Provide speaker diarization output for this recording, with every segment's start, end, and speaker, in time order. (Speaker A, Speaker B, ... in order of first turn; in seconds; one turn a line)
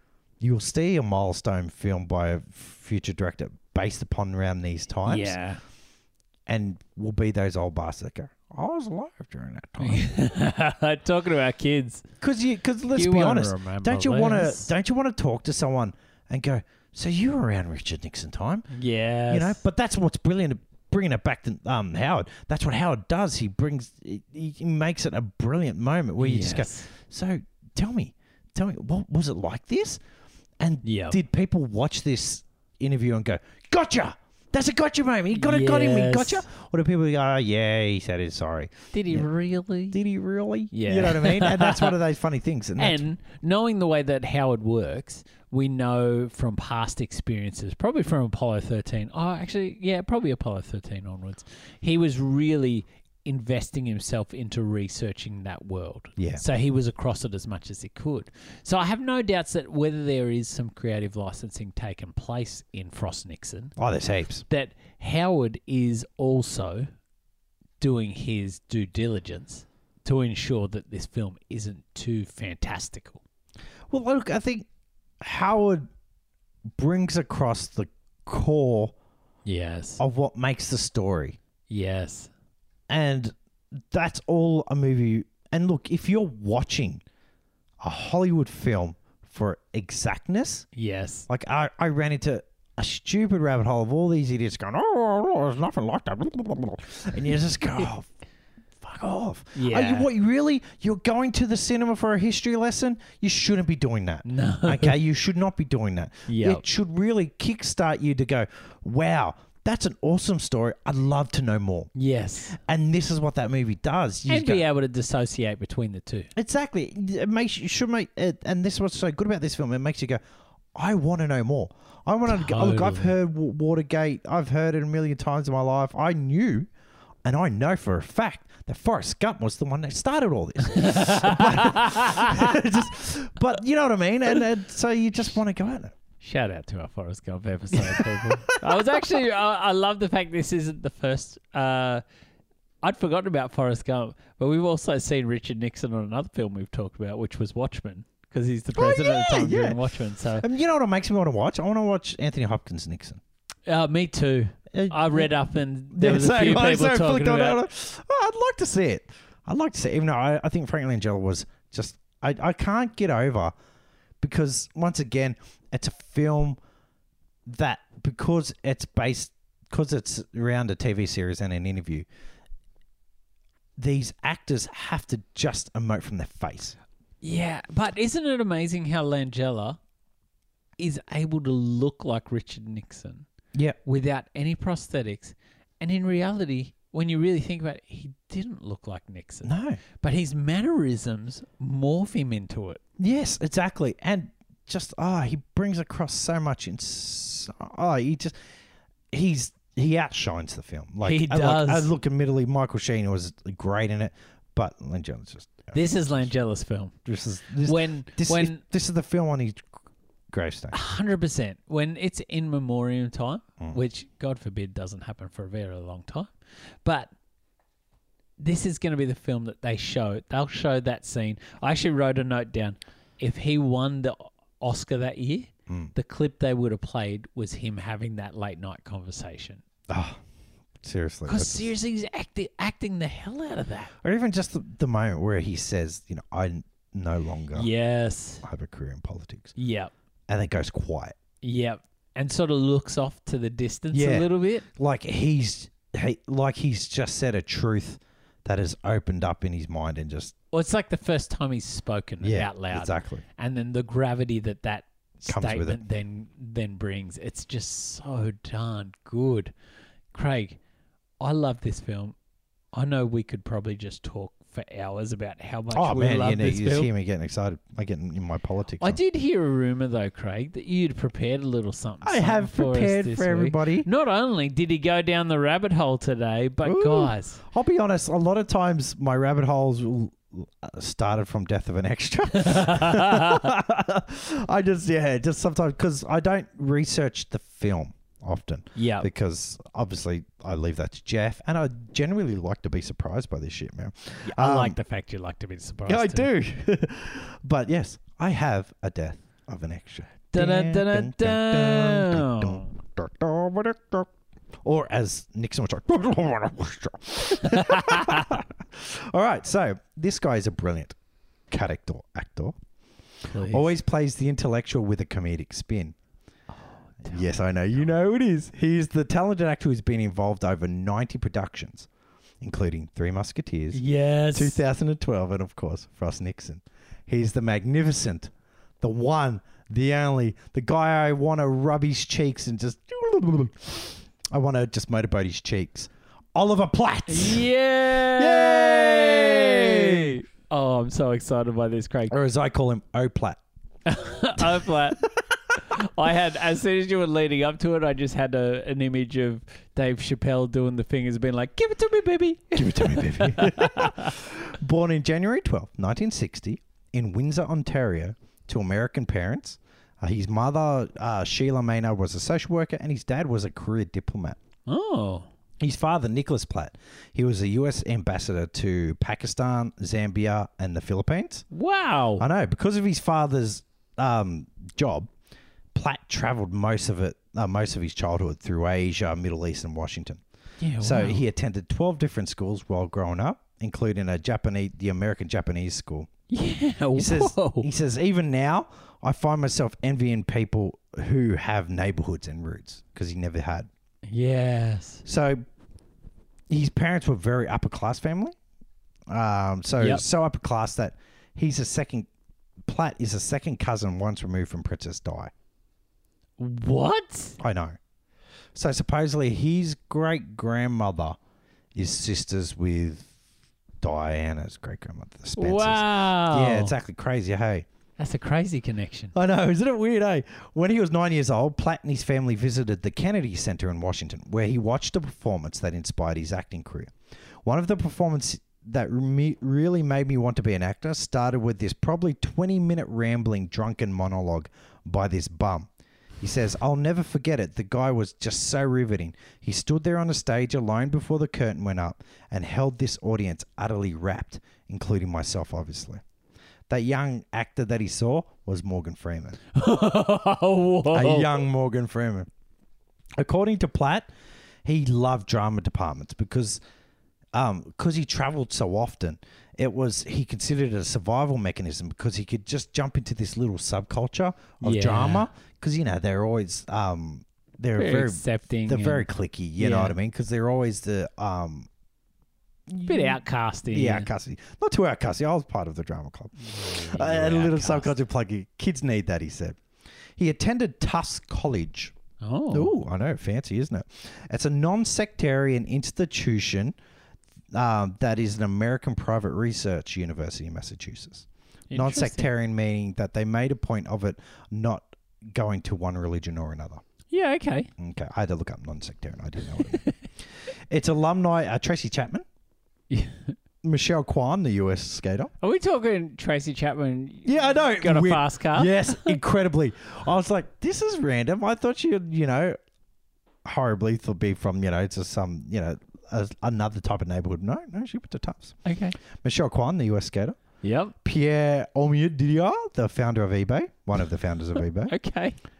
Speaker A: 0.4-5.3
Speaker B: 5.0-5.6
Speaker A: 6.5-10.1
Speaker B: 9.8-12.0
Speaker A: 12.2-18.6
Speaker B: 12.9-14.7
Speaker B: 18.7-19.6
Speaker A: 19.3-30.0
Speaker B: 26.2-26.9
Speaker A: 30.6-39.3
Speaker B: 30.8-31.2
Speaker B: 35.3-36.5
Speaker B: 38.9-40.0
Speaker A: 39.9-43.0
Speaker B: 40.7-42.0
Speaker B: 42.8-63.8
Speaker A: 63.8-64.4
Speaker B: 64.5-66.9
Speaker B: 67.8-73.2
Speaker A: 73.9-74.7
Speaker A: 75.2-75.9
Speaker A: 76.8-78.9
Speaker B: 79.4-80.0
Speaker A: 80.0-81.4
Speaker B: 81.7-82.3
Speaker A: 82.9-87.0
Speaker A: 87.8-90.7
Speaker B: 90.7-91.3
Speaker A: 91.3-98.1
Speaker A: 98.8-111.9
Speaker B: 99.5-100.1
Speaker B: 104.2-105.0
Speaker B: 106.3-106.6
Speaker B: 111.9-112.6
Speaker A: 112.5-114.6
Speaker B: 114.2-116.3
Speaker A: 116.3-120.2
Speaker A: 120.7-126.7
Speaker B: 122.3-123.1
Speaker A: 127.2-135.9
Speaker B: 130.7-132.5
Speaker B: 136.2-142.0
Speaker A: 137.7-139.0
Speaker B: 142.8-150.4
Speaker A: 148.7-149.8
Speaker A: 150.4-153.2
Speaker B: 153.7-157.6
Speaker A: 154.7-155.3
Speaker A: 155.9-163.5
Speaker A: 164.2-166.6
Speaker A: 167.4-172.1
Speaker A: 173.8-176.8
Speaker B: 177.2-179.8
Speaker B: 180.8-183.3
Speaker B: 183.8-192.8
Speaker A: 189.4-189.8
Speaker A: 193.0-198.3
Speaker A: 199.1-206.2
Speaker B: 201.0-201.9
Speaker B: 205.7-206.9
Speaker A: 207.1-209.8
Speaker B: 207.6-208.6
Speaker A: 210.3-210.8
Speaker B: 210.7-216.3
Speaker B: 216.8-217.1
Speaker B: 218.4-229.6
Speaker A: 229.9-230.2
Speaker A: 230.8-231.7
Speaker B: 231.3-233.9
Speaker A: 234.0-237.7
Speaker B: 237.5-238.4
Speaker A: 238.4-239.5
Speaker B: 239.6-239.9
Speaker A: 240.3-241.2
Speaker B: 241.4-244.7
Speaker A: 243.9-250.3
Speaker B: 250.5-259.5
Speaker A: 252.2-253.2
Speaker A: 255.2-255.8
Speaker B: 260.1-260.6
Speaker B: 261.2-262.1
Speaker B: 262.7-266.9
Speaker A: 265.7-269.0
Speaker B: 268.8-277.4
Speaker A: 272.0-273.9
Speaker A: 276.6-294.8
Speaker B: 282.3-283.5
Speaker B: 288.7-289.1
Speaker B: 294.2-296.3
Speaker A: 295.9-304.1
Speaker B: 300.3-302.7
Speaker A: 304.6-310.9
Speaker B: 307.4-308.3
Speaker A: 311.5-312.6
Speaker B: 313.2-313.7
Speaker A: 313.5-315.9
Speaker B: 316.9-317.3
Speaker A: 317.0-321.9
Speaker A: 322.4-323.8
Speaker B: 323.7-324.6
Speaker A: 324.3-337.4
Speaker B: 337.1-342.1
Speaker A: 338.1-340.2
Speaker A: 342.1-343.4
Speaker B: 343.9-354.1
Speaker A: 344.4-345.1
Speaker A: 352.5-364.4
Speaker B: 364.7-365.3
Speaker A: 365.6-371.4
Speaker B: 371.5-372.2
Speaker A: 372.2-375.1
Speaker A: 375.7-380.2
Speaker B: 380.6-381.2
Speaker A: 380.8-386.1
Speaker B: 386.3-387.7
Speaker A: 386.9-393.7
Speaker B: 394.1-395.0
Speaker A: 395.0-395.4
Speaker A: 396.5-398.4
Speaker A: 399.1-402.1
Speaker B: 399.8-400.0
Speaker A: 402.6-405.3
Speaker B: 406.4-407.4
Speaker A: 407.4-407.8
Speaker A: 408.5-411.2
Speaker A: 411.7-413.1
Speaker A: 413.8-417.7
Speaker B: 415.4-416.7
Speaker B: 418.0-419.1
Speaker A: 419.1-426.9
Speaker A: 427.4-435.7
Speaker A: 436.2-446.0
Speaker A: 446.7-449.4
Speaker B: 449.5-451.4
Speaker A: 450.9-452.3
Speaker A: 453.2-454.1
Speaker A: 454.6-456.6
Speaker A: 457.3-471.7
Speaker B: 464.6-465.3
Speaker B: 467.8-469.0
Speaker B: 469.6-469.9
Speaker A: 472.7-479.6
Speaker B: 472.9-474.1
Speaker B: 476.4-477.9
Speaker A: 480.2-481.9
Speaker B: 482.2-482.7
Speaker A: 482.5-486.7
Speaker A: 487.5-496.8
Speaker B: 491.7-492.3
Speaker B: 497.1-497.7
Speaker A: 497.8-499.8
Speaker B: 499.7-499.9
Speaker A: 500.7-502.2
Speaker B: 502.9-503.3
Speaker A: 503.6-505.3
Speaker B: 505.4-509.1
Speaker A: 507.2-512.6
Speaker A: 513.4-518.5
Speaker B: 518.6-519.0
Speaker A: 519.2-520.4
Speaker B: 520.6-520.9
Speaker A: 521.0-524.9
Speaker B: 524.9-525.4